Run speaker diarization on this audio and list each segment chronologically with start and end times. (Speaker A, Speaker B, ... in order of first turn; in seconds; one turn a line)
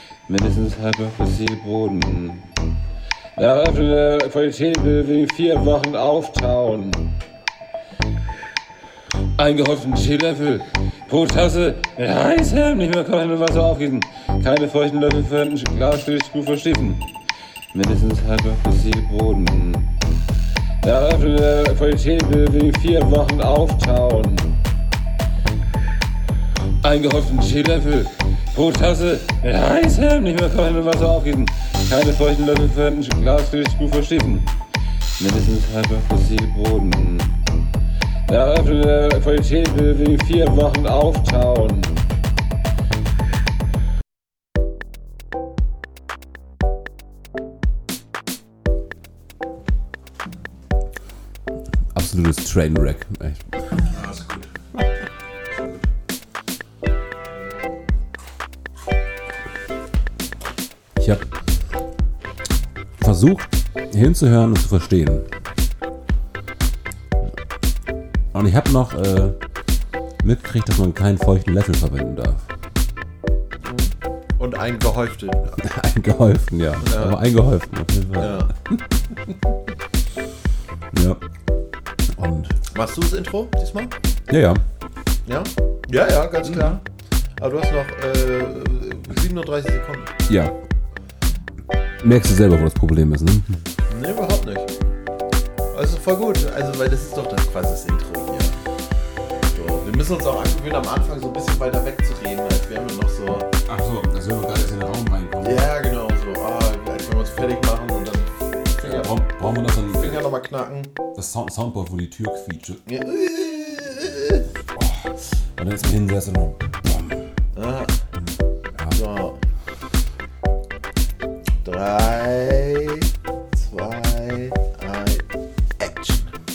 Speaker A: 0.3-2.5
Speaker A: 3.4-7.1
Speaker A: 9.3-17.1
Speaker A: 17.7-19.9
Speaker A: 20.8-24.6
Speaker A: 26.8-34.5
Speaker A: 35.2-37.4
Speaker A: 38.2-42.0
Speaker B: 51.9-53.9
Speaker C: 53.9-54.5
Speaker B: 61.0-61.3
Speaker B: 63.0-65.3
Speaker B: 68.3-69.4
Speaker B: 70.2-72.5
Speaker C: 73.6-75.6
Speaker B: 75.6-79.4
Speaker C: 76.8-77.2
Speaker C: 78.2-78.5
Speaker B: 80.9-81.2
Speaker B: 82.1-82.6
Speaker C: 82.7-83.9
Speaker B: 84.3-84.6
Speaker C: 85.2-86.8
Speaker B: 86.4-86.8
Speaker C: 87.4-90.1
Speaker B: 90.3-90.5
Speaker B: 92.0-93.6
Speaker C: 93.9-94.7
Speaker C: 95.7-98.6
Speaker C: 99.5-103.5
Speaker B: 103.7-105.7
Speaker C: 105.4-109.1
Speaker B: 108.8-110.2
Speaker C: 109.9-110.9
Speaker B: 111.1-112.8
Speaker C: 112.9-114.5
Speaker B: 114.7-117.3
Speaker C: 117.5-118.0
Speaker B: 118.3-119.0
Speaker C: 118.9-119.4
Speaker C: 121.6-125.2
Speaker C: 125.8-126.3